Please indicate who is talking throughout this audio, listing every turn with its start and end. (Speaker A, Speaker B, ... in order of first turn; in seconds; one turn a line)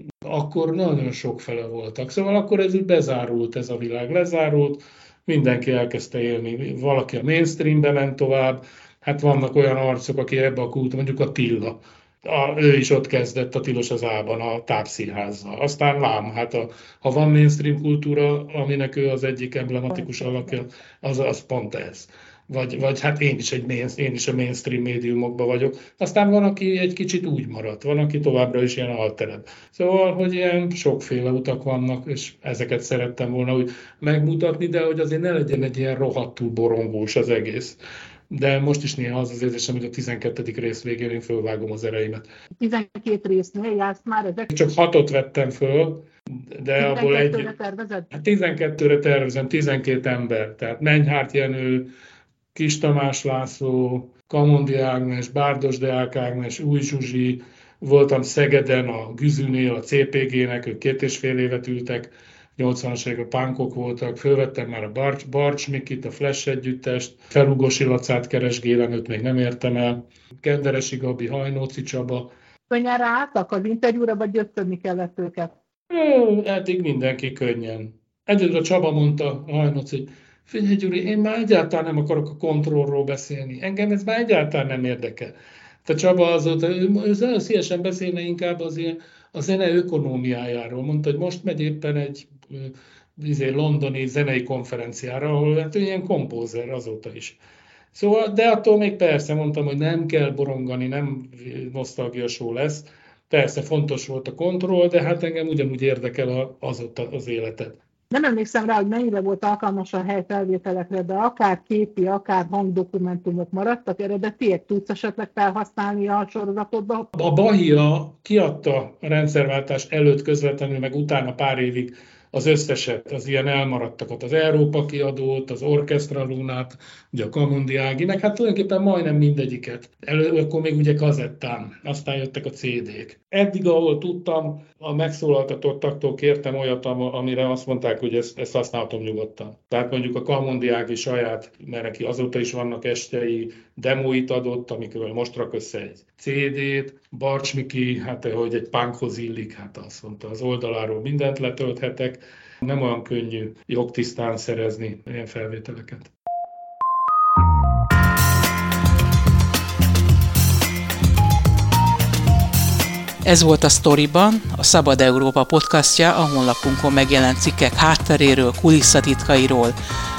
Speaker A: 0.2-37.8
Speaker A: 38.3-42.2
Speaker B: 42.6-44.5
Speaker A: 44.5-47.5
Speaker B: 46.8-48.1
Speaker A: 48.1-51.9
Speaker A: 52.5-72.3
Speaker B: 72.7-75.5
Speaker A: 75.9-97.4
Speaker A: 97.9-107.7
Speaker B: 108.1-117.1
Speaker A: 117.1-156.1
Speaker C: 163.2-169.8